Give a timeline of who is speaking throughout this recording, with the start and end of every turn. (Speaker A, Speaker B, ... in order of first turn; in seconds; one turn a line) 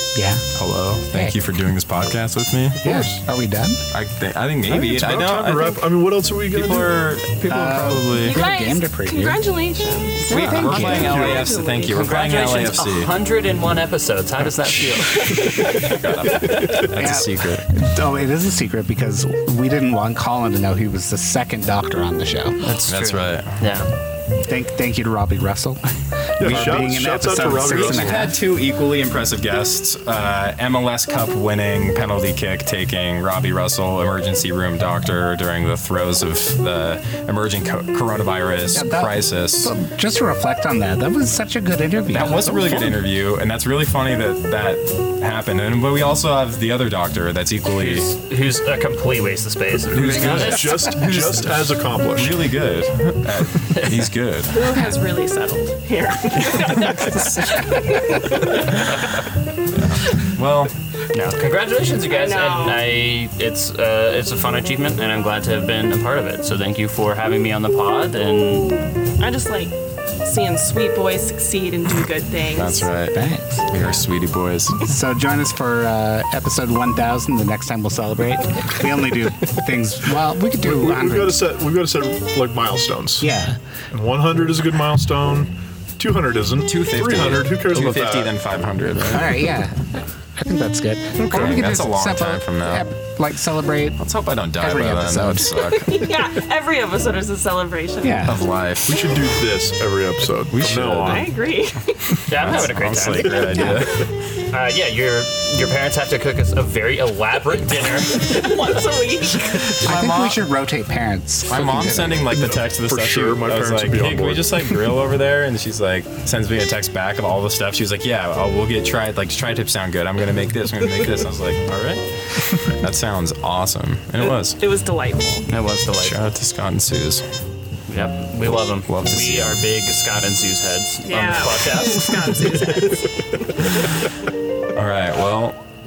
Speaker A: 0.1-0.4
Speaker B: 0.5-3.0
Speaker A: 2.8-3.8
Speaker C: 2.8-3.2
Speaker B: 3.9-5.8
Speaker A: 4.7-5.2
Speaker C: 4.8-7.1
Speaker B: 6.5-8.4
Speaker A: 7.5-9.4
Speaker D: 8.2-12.1
Speaker B: 10.2-13.1
Speaker A: 10.3-11.2
Speaker C: 10.9-11.5
Speaker E: 11.9-15.4
Speaker D: 15.2-15.9
Speaker B: 15.2-17.6
Speaker A: 16.9-22.6
Speaker E: 22.6-23.9
Speaker B: 22.9-23.7
Speaker A: 24.5-25.8
Speaker A: 26.4-28.4
Speaker C: 26.4-28.3
Speaker B: 26.4-39.7
Speaker A: 38.7-42.7
Speaker B: 42.1-48.1
Speaker E: 47.7-51.7
Speaker C: 49.9-52.5
Speaker B: 51.0-51.5
Speaker B: 52.1-54.5
Speaker D: 54.5-58.7
Speaker B: 56.4-57.6
Speaker E: 58.8-59.2
Speaker B: 59.7-60.7
Speaker E: 61.1-68.8
Speaker D: 62.0-62.9
Speaker D: 69.2-72.9
Speaker B: 72.5-74.8
Speaker A: 73.1-73.6
Speaker A: 74.9-81.4
Speaker C: 80.6-83.3
Speaker A: 83.2-83.6
Speaker C: 83.9-88.5
Speaker B: 86.7-89.6
Speaker A: 89.1-89.7
Speaker A: 90.3-94.0
Speaker C: 91.2-91.6
Speaker B: 91.3-92.8
Speaker B: 94.0-96.0
Speaker A: 94.6-95.5
Speaker D: 95.7-98.3
Speaker A: 98.0-98.4
Speaker B: 98.2-99.4
Speaker C: 98.8-101.3
Speaker B: 100.5-101.3
Speaker D: 101.0-102.2
Speaker E: 102.3-103.5
Speaker B: 102.3-104.1
Speaker A: 103.5-103.8
Speaker E: 104.5-108.7
Speaker D: 107.9-109.7
Speaker B: 109.7-110.4
Speaker A: 109.8-112.3
Speaker B: 111.5-124.6
Speaker C: 112.3-114.9
Speaker D: 124.6-125.5
Speaker E: 125.5-126.2
Speaker B: 125.9-127.2
Speaker E: 127.9-132.8
Speaker B: 128.8-129.6
Speaker D: 131.0-133.3
Speaker B: 134.7-135.6